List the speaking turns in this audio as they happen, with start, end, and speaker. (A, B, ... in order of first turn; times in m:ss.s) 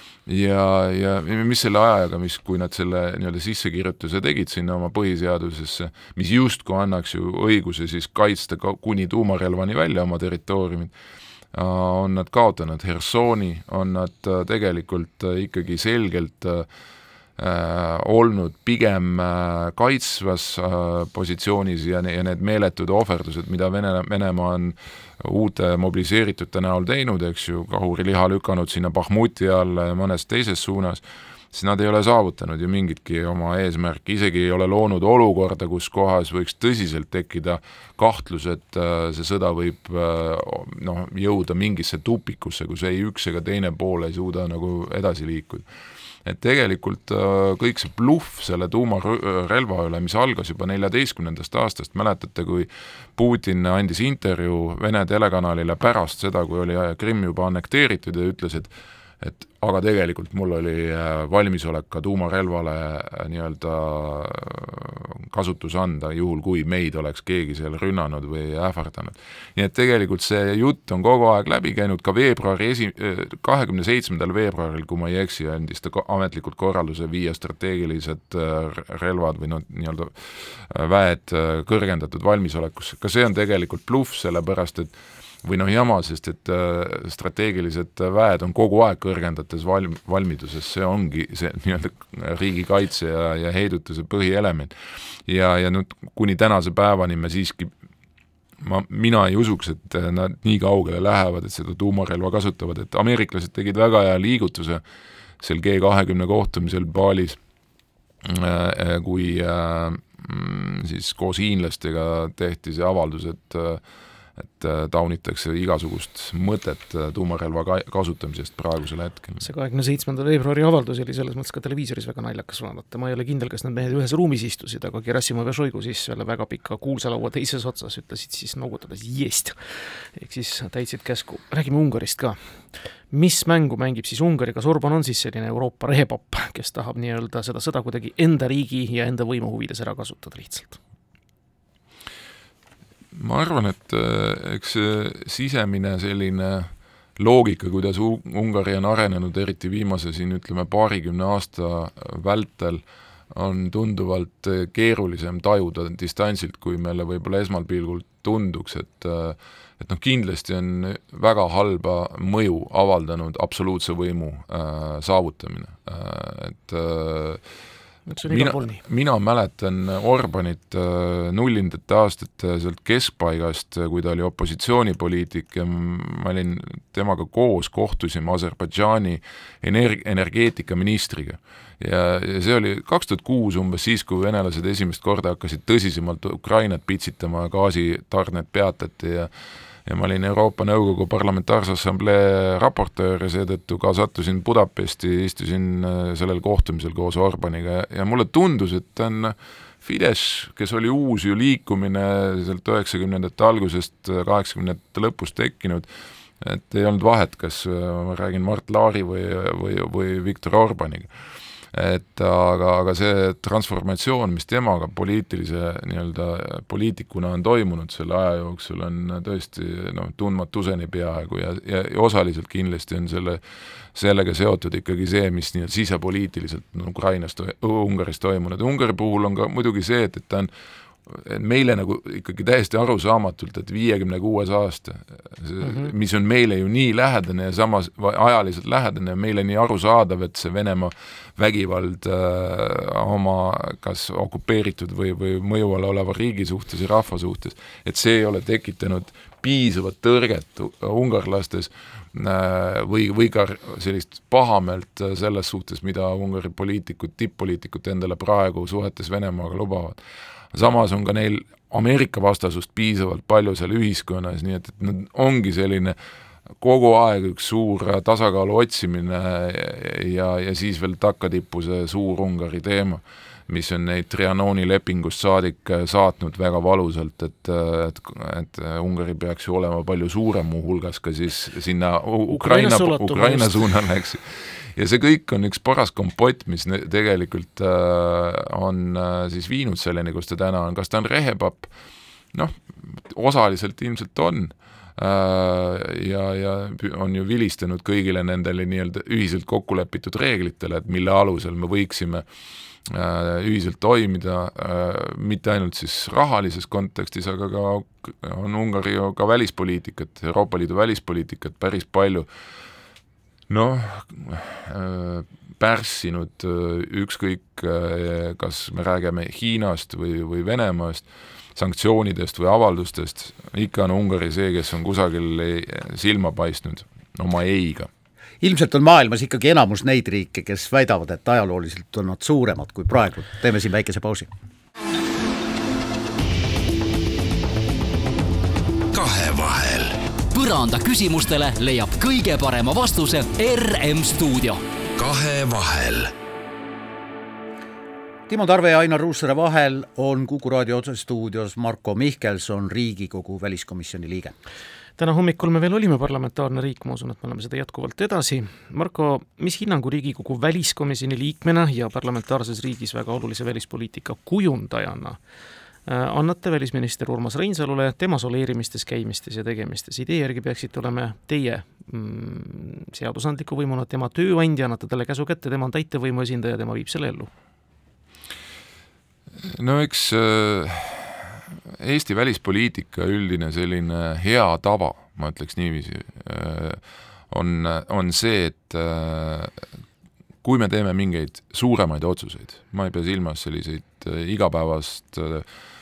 0:00.2-0:10.9 A
0:11.5-0:16.7 A
0:17.4-0:45.6 A
0:46.2-1:24.9 A
1:25.4-1:34.7 A
1:35.3-1:37.7 A
1:38.6-1:44.8 A
1:45.4-1:47.4 A
1:48.2-1:53.8 A
1:54.4-1:59.5 A
1:59.4-2:12.4 B
2:13.1-2:20.8 B
2:23.1-2:47.4 A
2:48.1-2:48.8 B
2:48.2-3:09.3 A
3:09.9-3:25.9 A
3:26.4-3:31.1 A
3:31.7-3:43.4 A
3:43.9-3:50.5 A
3:51.0-4:20.0 A
3:55.6-3:55.9 B
4:20.5-4:26.0 A
4:26.6-4:51.7 A
4:42.3-4:43.7 B
4:52.3-5:02.2 A
5:02.8-5:12.3 A
5:13.5-5:27.9 A
5:28.4-5:34.3 C
5:38.9-5:40.0 D
5:40.3-5:44.6 E
5:45.0-5:46.1 D
5:48.3-5:54.3 C
5:55.0-6:05.2 B
6:05.9-6:17.3 B
6:19.4-6:29.6 A
6:30.4-6:35.4 A